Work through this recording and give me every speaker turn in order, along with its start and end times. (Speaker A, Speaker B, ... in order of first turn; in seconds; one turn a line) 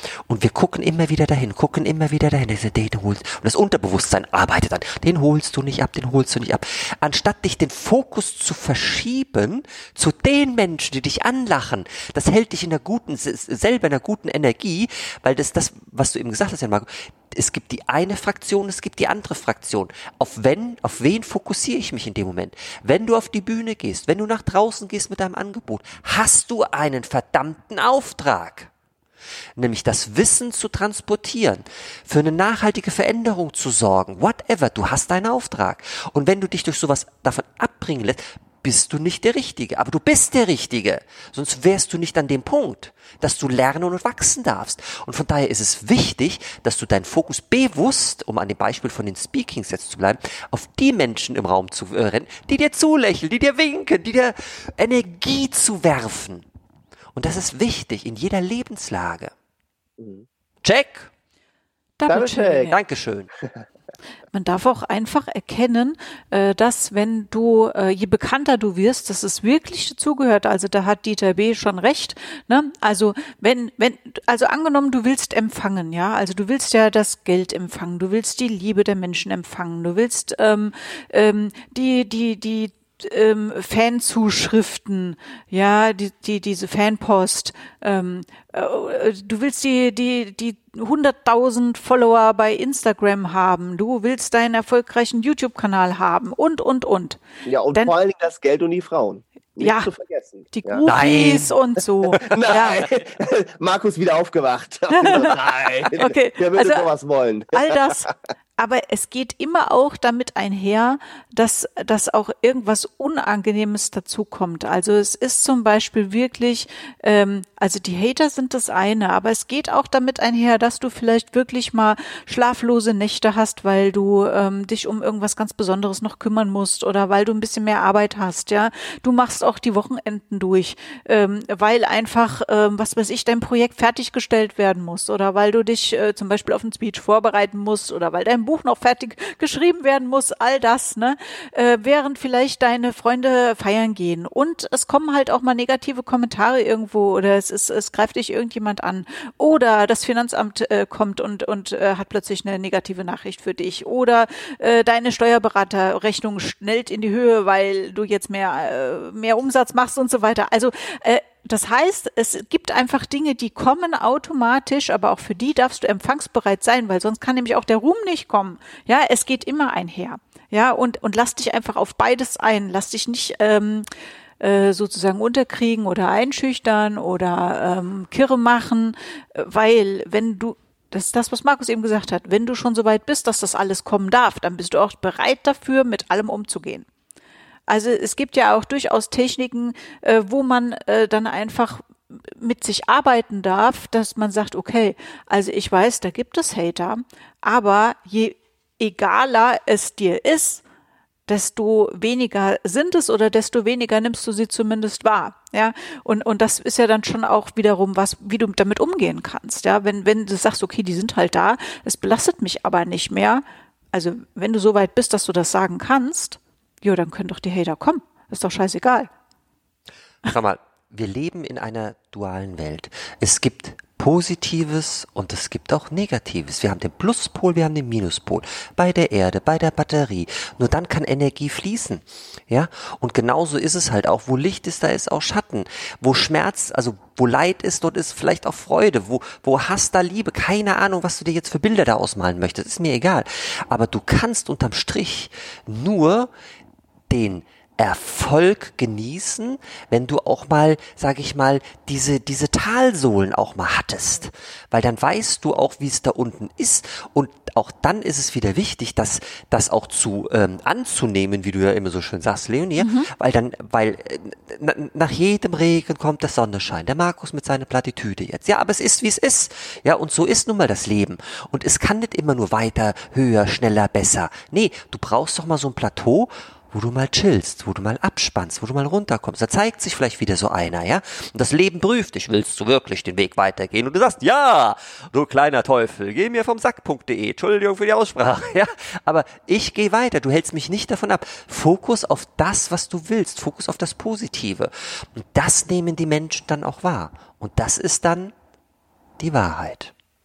Speaker A: 0.2-28.7
Speaker A: 29.6-56.5
Speaker A: 57.1-59.3
Speaker B: 60.0-60.2
Speaker A: 60.6-61.1
Speaker C: 62.0-62.7
Speaker B: 62.1-62.7
Speaker A: 62.7-63.3
Speaker C: 64.3-97.2
Speaker B: 97.4-100.8
Speaker C: 99.6-99.9
Speaker C: 100.5-102.9
Speaker A: 100.8-101.6
Speaker B: 102.2-108.1
Speaker C: 104.9-105.4
Speaker C: 105.9-106.9
Speaker C: 107.5-173.9
Speaker C: 174.4-186.9
Speaker C: 187.7-200.6
Speaker C: 201.3-219.1
Speaker A: 220.2-246.3
Speaker A: 247.1-298.3
Speaker C: 262.8-263.1
Speaker A: 299.2-299.9